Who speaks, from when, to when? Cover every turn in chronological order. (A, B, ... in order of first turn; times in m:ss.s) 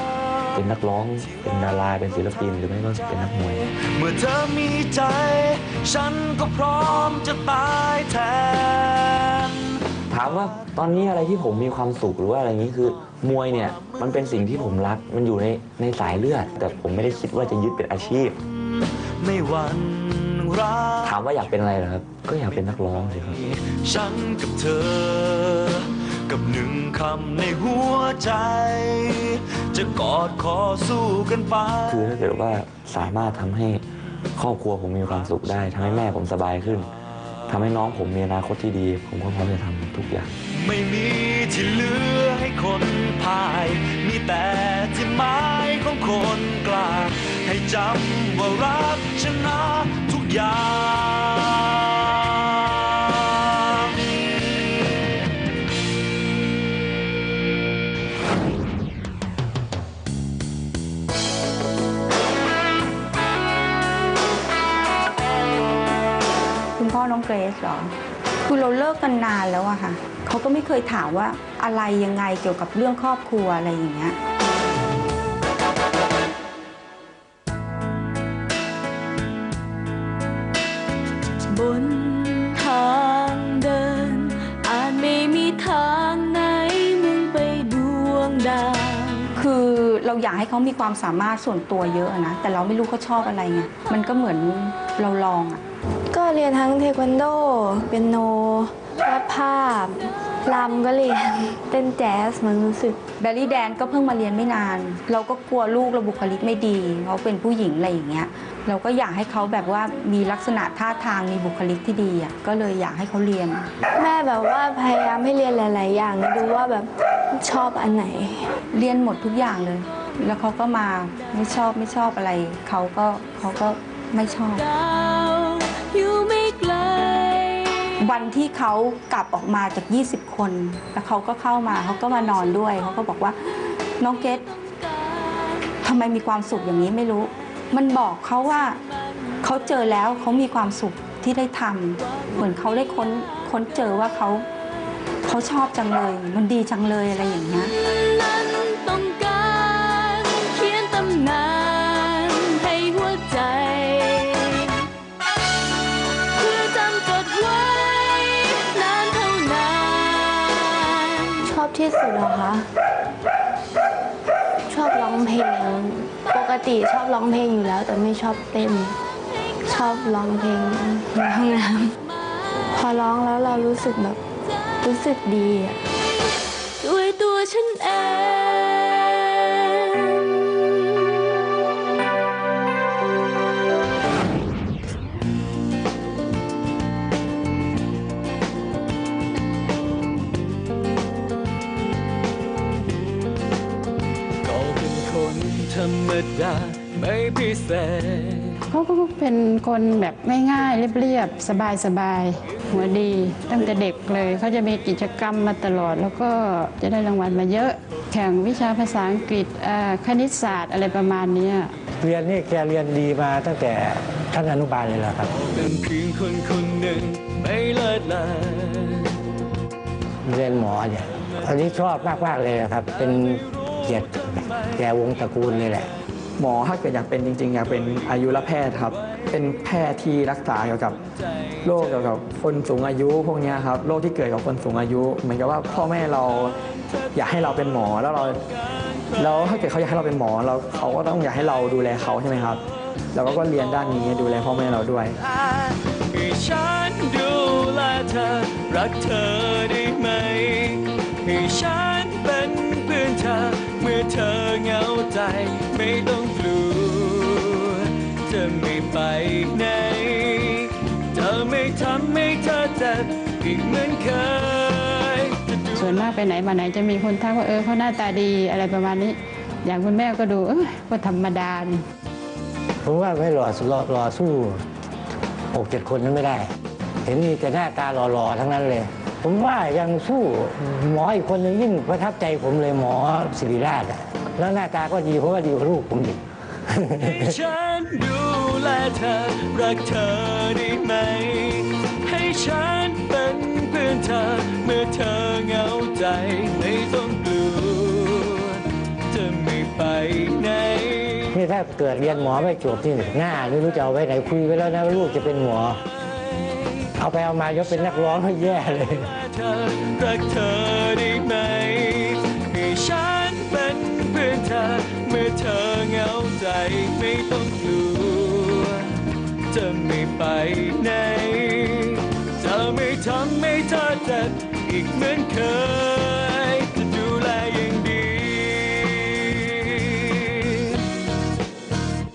0:00.5-0:03.6 A
0:03.6-0:09.6 B
0:10.1-0:18.4 A
0:18.6-0:21.2 B
0:21.0-0:23.4 A
0:22.9-0:32.0 B
0:31.9-0:33.8 A
0:34.4-0:36.9 A
0:37.5-0:40.3 A
0:40.5-0:54.0 B
1:06.8-1:07.9 C
1:08.4-1:14.2 C
1:21.5-1:29.3 D
1:29.4-1:35.6 C
1:36.1-1:43.0 E
1:43.2-1:53.7 C
1:53.9-1:58.6 E
1:58.7-2:04.6 C
2:04.7-2:07.9 D
2:08.0-2:13.4 C
2:14.0-2:14.5 C
2:15.8-2:18.8 C
2:19.4-2:24.4 C
2:25.2-2:27.7 C
2:27.8-2:34.8 D
2:36.4-2:41.5 D
2:41.5-2:42.7 E
2:44.7-2:49.0 E
2:49.6-2:52.0 E
2:52.7-2:54.2 E
2:54.8-2:55.8 E
2:56.8-3:00.2 D
3:14.4-3:18.6 F
3:18.7-3:31.7 G
3:32.0-3:35.3 H
3:35.3-3:39.2 F
3:40.2-3:45.9 H
3:43.4-3:44.8 F
3:46.4-3:51.0 I
3:51.6-3:56.6 I
3:57.1-3:58.4 I
3:59.2-4:02.6 I
4:03.1-4:05.2 I
4:05.3-4:26.1 F
4:25.7-4:31.8 G
4:32.8-4:34.6 H
4:35.5-4:36.5 H
4:37.0-4:47.3 H
4:47.0-5:01.3 F
5:01.3-5:05.8 H
5:06.0-5:06.9 F
5:07.0-5:09.1 H
5:09.0-5:18.9 F
5:19.5-5:30.7 F